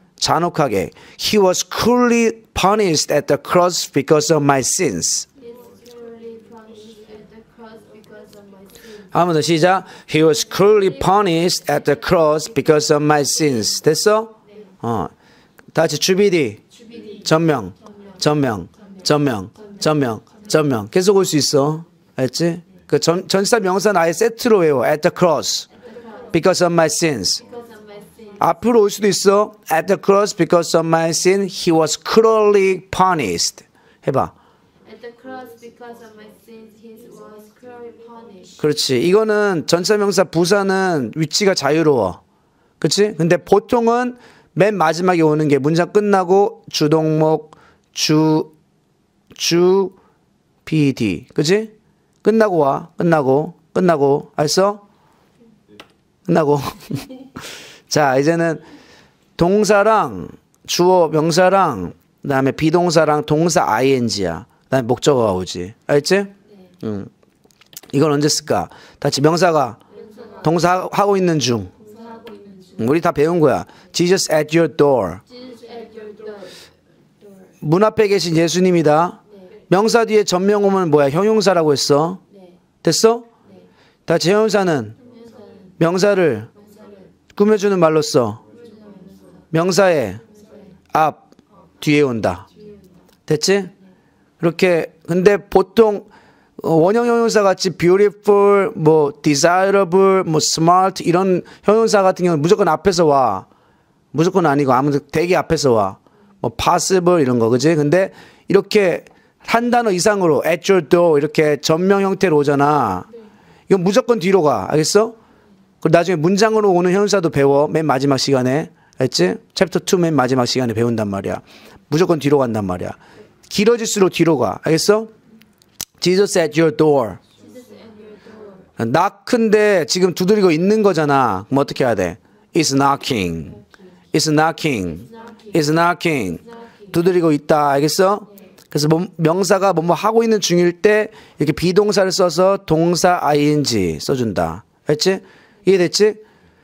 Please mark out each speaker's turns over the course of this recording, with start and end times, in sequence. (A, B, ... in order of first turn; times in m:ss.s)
0:00.2-0:05.3 A
0:05.4-0:09.1 B
0:09.1-0:15.1 A
0:15.8-0:16.6 A
0:16.7-0:17.3 B
0:17.2-0:25.7 A
0:18.8-0:19.1 B
0:19.6-0:20.4 B
0:25.7-0:26.5 B
0:26.3-0:27.4 A
0:27.4-0:28.7 B
0:28.4-0:34.3 A
0:34.8-0:38.7 B
0:38.6-0:42.2 A
0:42.8-0:48.5 A
0:49.4-0:50.0 A
0:50.6-0:51.7 A
0:52.2-0:54.8 A
0:56.3-0:57.1 A
0:57.9-0:58.6 A
0:59.4-1:07.1 A
1:07.9-1:09.8 A
1:09.9-1:10.6 B
1:10.4-1:11.7 A
1:11.8-1:12.9 B
1:12.8-1:15.2 A
1:15.3-1:16.6 B
1:17.6-1:19.2 A
1:19.7-1:22.2 A
1:22.8-1:23.3 A
1:24.1-1:25.0 A
1:25.0-1:25.7 B
1:25.8-1:26.5 A
1:26.5-1:27.1 B
1:27.4-1:28.4 A
1:28.5-1:29.5 B
1:29.5-1:30.2 A
1:30.2-1:30.8 B
1:30.9-1:31.2 A
1:31.8-1:32.4 A
1:32.5-1:33.0 B
1:33.3-1:33.7 A
1:34.4-1:36.1 A
1:36.6-1:43.5 A
1:44.1-1:53.1 A
1:53.7-1:55.2 A
1:55.8-2:03.0 A
2:03.5-2:05.1 A
2:06.0-2:07.2 A
2:07.3-2:08.7 B
2:08.8-2:13.6 A
2:14.1-2:26.2 A
2:15.1-2:15.5 B